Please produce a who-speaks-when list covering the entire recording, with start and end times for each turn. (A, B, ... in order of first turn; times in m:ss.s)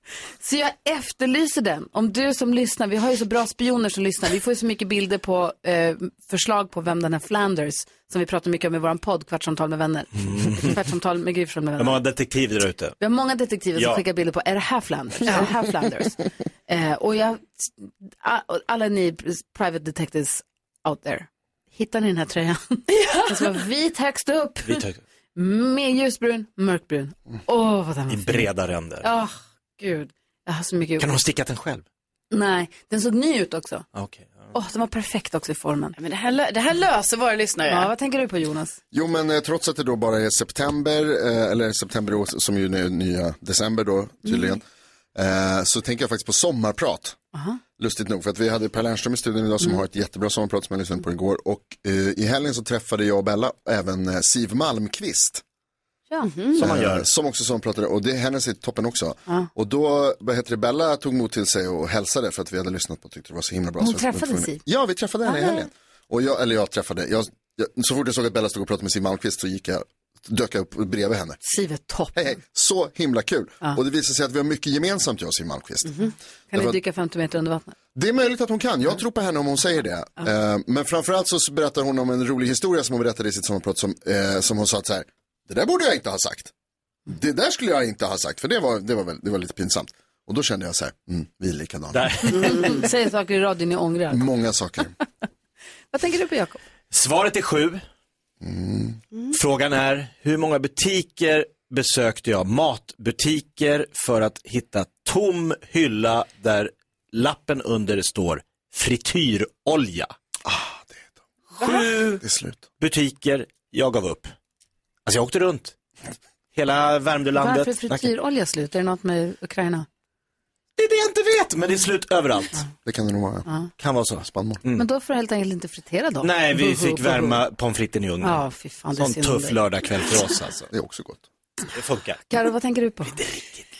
0:00.4-0:12.0 A
0:10.2-0:10.8 B
0:11.8-0:13.0 B
0:13.0-0:16.2 A
0:13.7-0:14.0 B
0:15.2-0:15.5 C
0:16.7-0:24.8 A
0:22.9-0:23.6 C
0:24.6-0:25.0 B
0:25.4-0:28.5 A
0:28.1-0:29.1 B
0:29.0-0:31.2 A
0:31.0-0:31.8 B
0:32.3-0:33.8 A
0:33.9-0:34.5 B
0:34.5-0:36.0 A
0:36.0-0:37.9 C
0:37.7-0:38.8 A
0:38.9-0:44.6 D
0:45.1-0:47.2 D
0:47.8-0:55.4 D
0:56.2-0:56.6 C
0:56.5-0:57.1 B
0:56.6-1:11.4 D
1:03.8-1:04.6 A
1:05.2-1:05.7 A
1:11.4-1:12.4 A
1:12.1-1:16.8 D
1:16.0-1:17.7 A
1:17.9-1:26.5 D
1:27.1-1:32.3 D
1:31.9-1:32.7 B
1:32.3-1:34.2 A
1:34.1-1:34.9 D
1:35.9-1:36.6 A
1:36.9-1:37.8 B
1:38.4-1:39.0 D
1:39.3-1:50.1 B
1:50.4-1:51.1 D
1:51.6-1:52.2 B
1:52.2-1:52.6 D
1:52.8-1:54.3 B
1:55.0-1:55.7 B
1:56.5-1:58.1 B
1:57.4-1:59.9 A
2:00.8-2:02.6 B
2:02.8-2:03.4 D
2:03.8-2:04.8 B
2:04.2-2:04.6 D
2:04.7-2:07.4 A
2:06.2-2:08.4 B
2:08.2-2:09.6 A
2:09.0-2:10.7 B
2:10.7-2:11.2 D
2:11.7-2:12.2 B
2:12.3-2:13.2 A
2:13.1-2:13.5 B